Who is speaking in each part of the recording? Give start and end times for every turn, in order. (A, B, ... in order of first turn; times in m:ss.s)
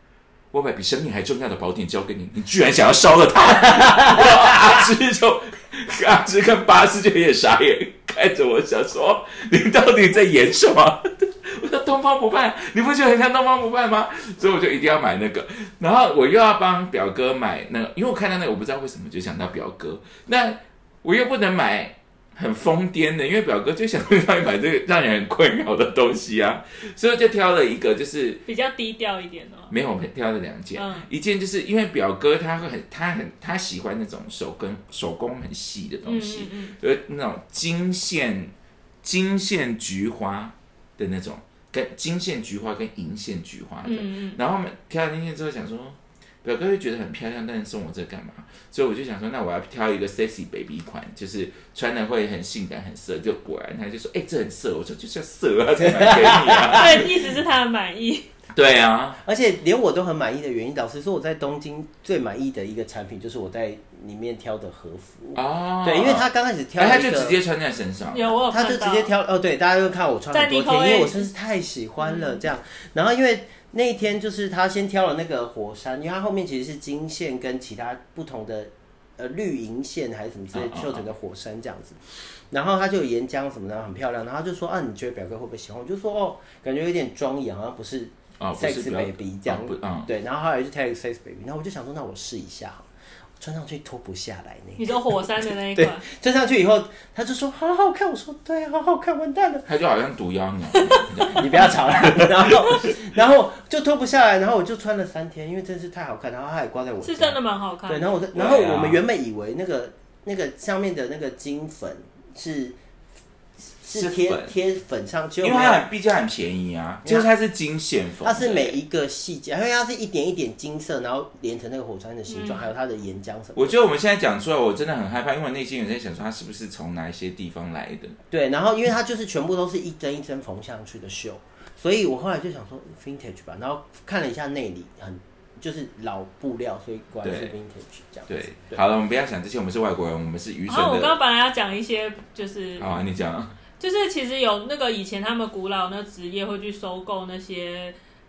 0:00.5-0:28.4 A
0:03.9-0:04.3 B
0:28.5-0:29.7 C
0:29.7-0:38.5 A
0:30.8-0:31.1 C
0:36.0-0:36.8 C
0:39.0-0:57.2 A
0:43.8-0:44.4 C
0:55.8-0:57.1 B
0:56.7-0:58.3 C
0:58.5-0:59.2 A
0:59.2-1:07.4 B
1:05.4-1:08.3 A
1:08.1-1:09.1 C
1:08.5-1:32.9 B
1:10.3-1:11.3 C
1:12.0-1:12.4 C
1:20.5-1:21.0 A
1:28.4-1:30.1 A
1:33.4-1:35.2 B
1:34.8-1:36.0 C
1:35.7-1:39.7 B
1:39.7-1:42.7 A
1:41.3-1:52.8 B
1:47.0-1:48.2 C
1:48.3-1:49.0 A
1:53.8-1:55.8 B
1:53.9-1:54.5 A
1:55.4-1:58.8 A
1:58.2-2:03.8 B
2:02.3-2:02.7 C
2:03.6-2:08.2 A
2:08.3-2:18.8 B
2:17.2-2:17.5 A
2:18.3-2:21.2 A
2:20.7-2:23.0 C
2:22.8-2:23.6 A
2:23.8-2:28.0 C